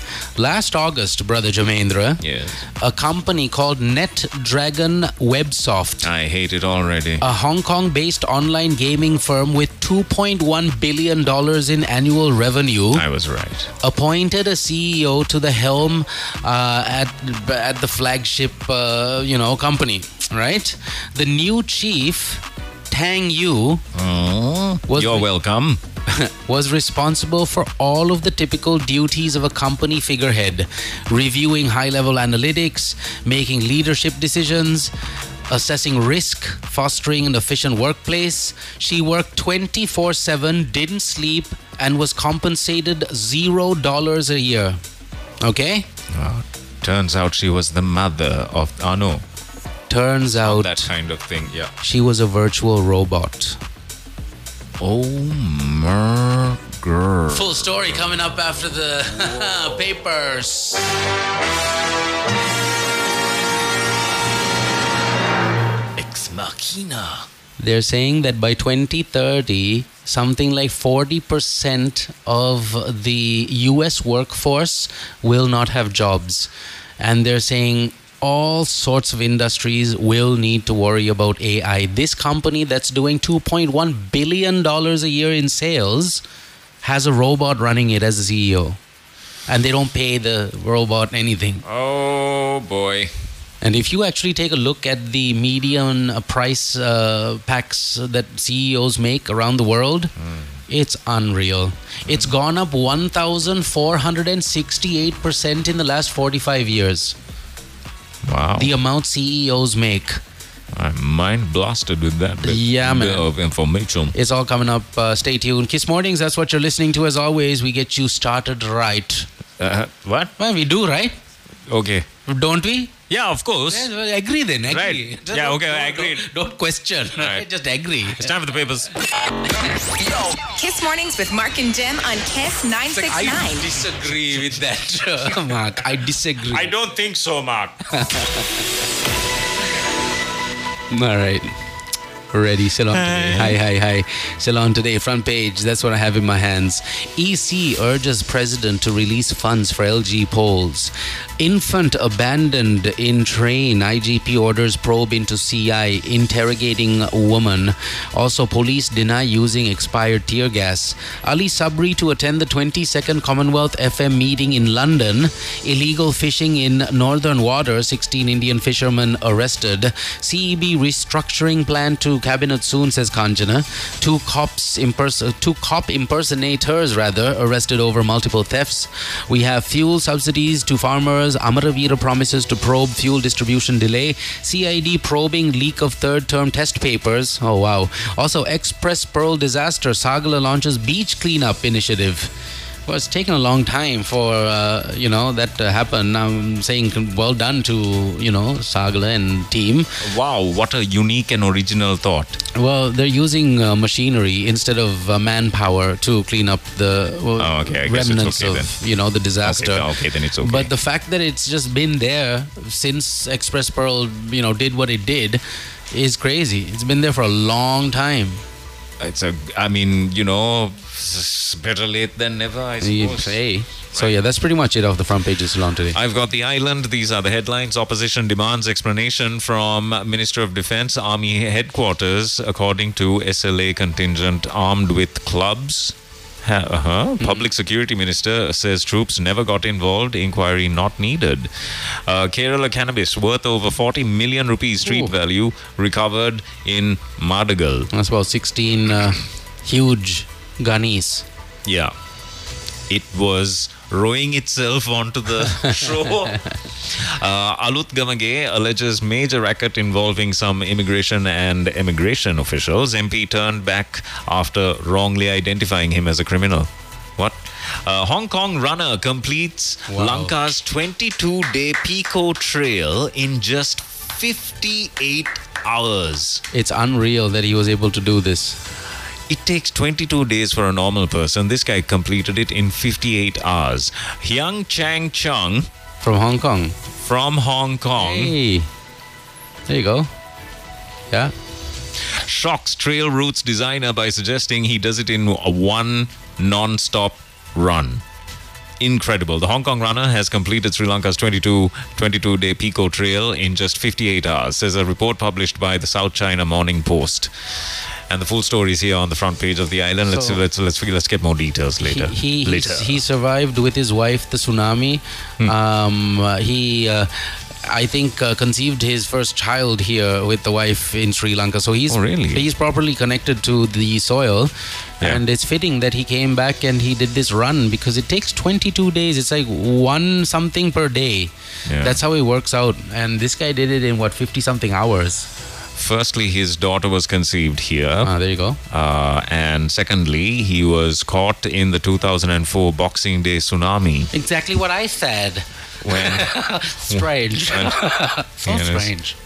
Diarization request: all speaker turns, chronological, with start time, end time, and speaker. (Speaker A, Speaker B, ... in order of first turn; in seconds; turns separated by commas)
Speaker A: 0.4-2.2, Speaker B: 2.2-2.6, Speaker A: 2.8-6.1, Speaker B: 6.0-7.3, Speaker A: 7.2-13.0, Speaker B: 12.9-13.7, Speaker A: 13.8-23.8, Speaker B: 23.9-25.8, Speaker A: 24.9-25.3, Speaker A: 26.1-34.9, Speaker A: 35.5-44.8, Speaker A: 45.4-45.9, Speaker B: 46.1-49.2, Speaker A: 49.9-50.9, Speaker B: 50.3-51.7, Speaker A: 51.8-53.6, Speaker B: 54.8-58.1, Speaker A: 57.3-61.0, Speaker B: 66.0-67.3, Speaker A: 67.6-86.2, Speaker A: 86.8-88.8, Speaker A: 89.5-91.6, Speaker B: 91.6-93.1, Speaker A: 93.6-100.1, Speaker B: 100.2-100.6, Speaker A: 100.7-107.2, Speaker B: 102.1-102.3, Speaker B: 108.2-108.8, Speaker A: 108.6-110.2, Speaker B: 110.7-114.2, Speaker A: 112.4-113.3, Speaker A: 114.1-119.3, Speaker B: 119.6-120.3, Speaker A: 120.4-121.2, Speaker B: 121.7-122.1, Speaker A: 122.3-122.9, Speaker B: 123.1-123.9, Speaker A: 123.7-128.3, Speaker B: 124.7-126.3, Speaker B: 127.2-127.5, Speaker B: 128.1-128.9, Speaker C: 130.6-133.7, Speaker A: 132.9-136.7, Speaker B: 136.5-137.8, Speaker A: 137.9-138.6, Speaker A: 140.9-141.6, Speaker A: 142.3-192.3, Speaker B: 142.9-143.6, Speaker A: 192.9-199.9, Speaker B: 200.0-202.4, Speaker A: 202.5-209.9, Speaker B: 207.4-208.7, Speaker B: 209.4-210.7, Speaker A: 210.4-215.4, Speaker A: 215.9-218.4, Speaker B: 219.0-223.4, Speaker A: 222.8-226.0, Speaker B: 225.9-247.9, Speaker A: 237.2-237.5, Speaker A: 244.8-245.1, Speaker A: 247.9-251.2, Speaker B: 251.7-251.9, Speaker B: 252.9-276.4, Speaker A: 269.9-270.4, Speaker A: 276.5-278.6, Speaker B: 279.3-285.7, Speaker A: 286.0-286.8, Speaker B: 287.0-288.4, Speaker A: 288.0-288.7, Speaker A: 289.7-290.1, Speaker B: 292.1-298.0, Speaker B: 298.8-307.3, Speaker B: 308.1-313.0, Speaker A: 310.1-310.4, Speaker A: 311.8-317.1, Speaker A: 317.6-335.3, Speaker B: 321.9-322.4, Speaker B: 331.7-332.0, Speaker B: 335.8-338.1, Speaker A: 338.0-338.6, Speaker B: 338.7-344.1, Speaker A: 344.1-349.1, Speaker B: 345.8-348.9